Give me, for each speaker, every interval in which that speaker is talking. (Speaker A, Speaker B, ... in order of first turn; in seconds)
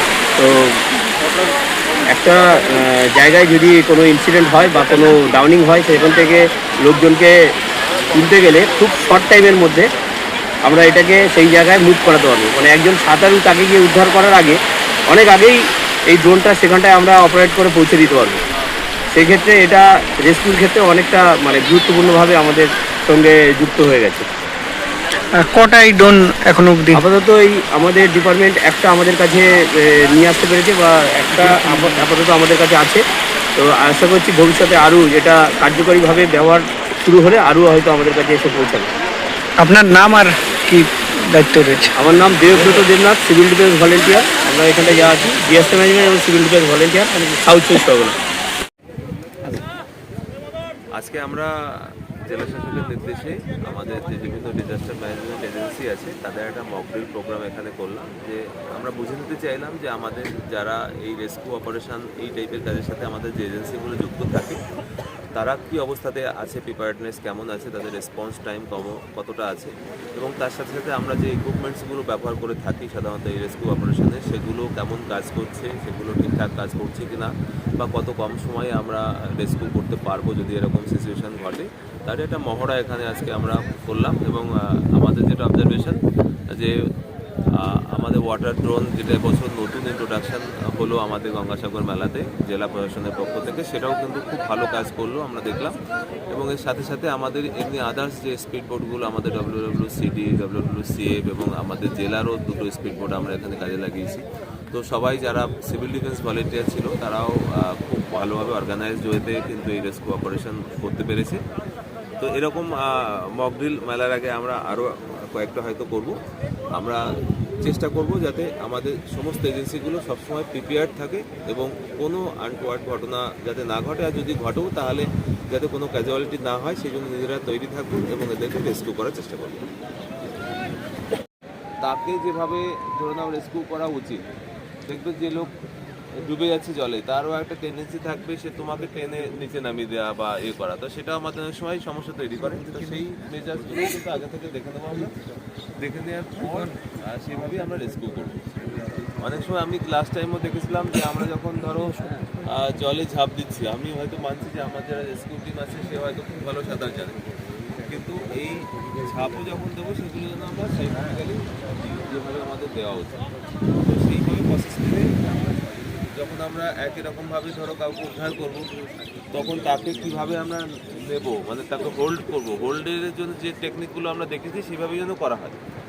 Speaker A: 0.4-0.7, 2.1-7.3, 8.1-9.9, 10.7-14.6, 15.1-15.6, 16.1-18.4, 19.1-24.2, 26.9-33.0, 33.6-38.9, 42.0-48.1
Speaker B: 25.4-27.0, 31.3-32.0, 39.6-41.9
Speaker C: 51.0-51.5, 52.3-64.6, 65.3-86.0, 87.6-95.8, 96.3-111.4, 112.2-112.8, 113.4-116.1, 117.6-129.6, 131.8-134.2, 134.9-135.5, 136.2-145.1, 145.8-148.4, 149.2-157.2, 157.9-163.2, 163.8-165.1, 166.2-168.6, 169.3-175.6